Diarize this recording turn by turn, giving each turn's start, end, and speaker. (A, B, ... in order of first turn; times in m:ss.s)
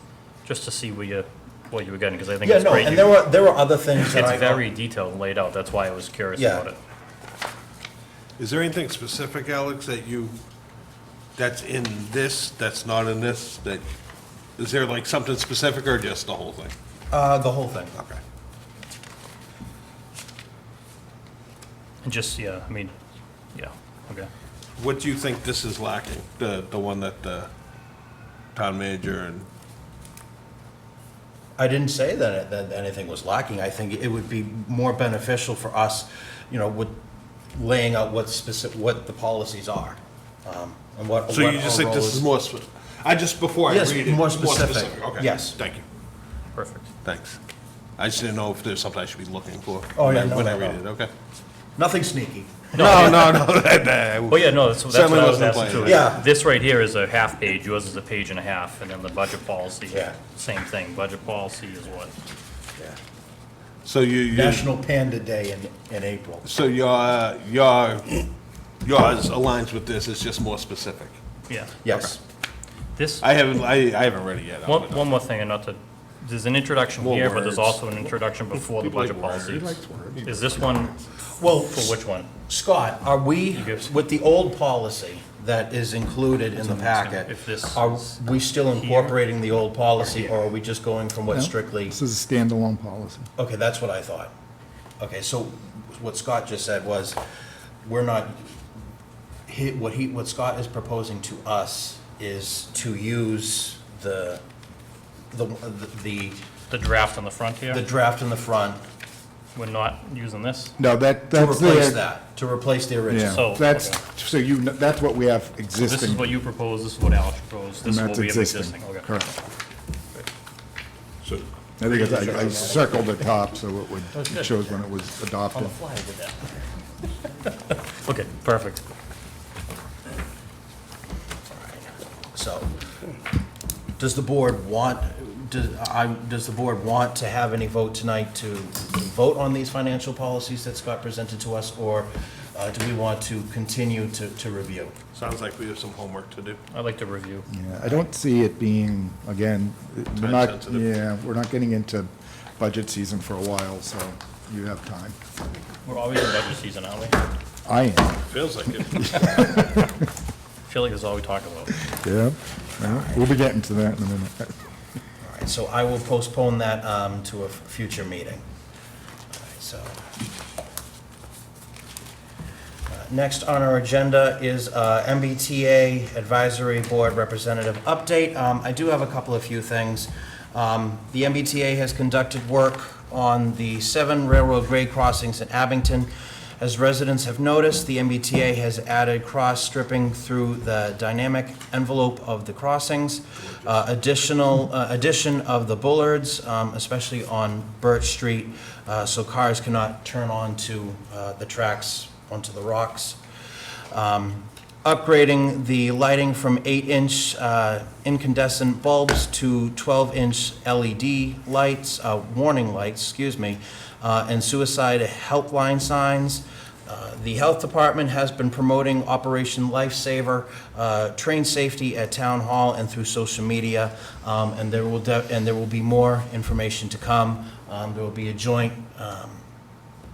0:00.4-0:03.1 A
0:02.4-0:04.6 B
0:04.0-0:06.8 A
0:06.4-0:06.6 B
0:08.4-0:10.4 C
0:11.4-0:13.8 C
0:14.6-0:16.7 C
0:17.1-0:17.9 B
0:17.9-0:18.2 C
0:22.0-0:22.9 A
0:23.5-0:24.3 A
0:24.8-0:27.5 C
0:28.5-0:29.5 C
0:31.6-0:37.0 B
0:37.5-0:42.2 B
0:41.3-0:45.8 C
0:43.7-0:45.6 B
0:46.6-0:46.8 A
0:47.0-0:47.4 C
0:48.0-0:51.1 C
0:49.9-0:50.8 B
0:51.8-0:53.5 B
0:52.8-0:53.2 A
0:52.8-0:56.0 C
0:54.3-1:02.1 A
0:55.7-0:56.2 B
0:59.9-1:00.1 B
1:03.8-1:04.7 C
1:04.3-1:06.4 B
1:06.4-1:08.3 C
1:08.8-1:11.2 C
1:11.5-1:11.7 A
1:11.8-1:12.2 B
1:13.0-1:13.2 A
1:13.2-1:15.2 C
1:14.6-1:20.9 A
1:17.0-1:17.8 C
1:18.5-1:21.0 C
1:21.4-1:22.0 B
1:21.5-1:22.3 A
1:22.5-1:32.0 B
1:23.5-1:23.9 A
1:26.6-1:28.2 A
1:28.7-1:29.1 A
1:31.3-1:33.3 D
1:33.4-1:34.3 B
1:35.0-1:37.2 B
1:37.8-1:38.5 B
1:39.5-1:44.4 B
1:45.3-1:46.4 B
1:46.7-1:47.8 A
1:47.7-1:48.8 B
1:49.5-1:50.7 A
1:50.8-1:52.0 D
1:51.3-1:53.5 B
1:53.1-1:56.4 D
1:53.3-1:54.0 A
1:55.8-1:59.1 A
1:57.8-1:59.4 D
2:01.2-2:03.0 C
2:01.8-2:05.8 D
2:01.8-2:03.0 A
2:04.1-2:04.6 A
2:05.5-2:06.5 A
2:08.0-2:08.8 A
2:11.7-2:12.7 B
2:14.0-2:24.9 B
2:25.1-2:26.6 C
2:26.7-2:27.4 A
2:27.5-2:35.2 D
2:30.2-2:30.9 C
2:35.8-2:37.2 A
2:37.6-2:38.3 D
2:38.3-2:39.6 C
2:39.0-2:39.9 D
2:40.6-2:41.8 A
2:41.8-2:44.6 D
2:42.8-2:43.2 B
2:45.2-2:48.4 B
2:49.3-2:50.0 B
2:52.9-3:23.2 B
3:23.9-3:49.4 B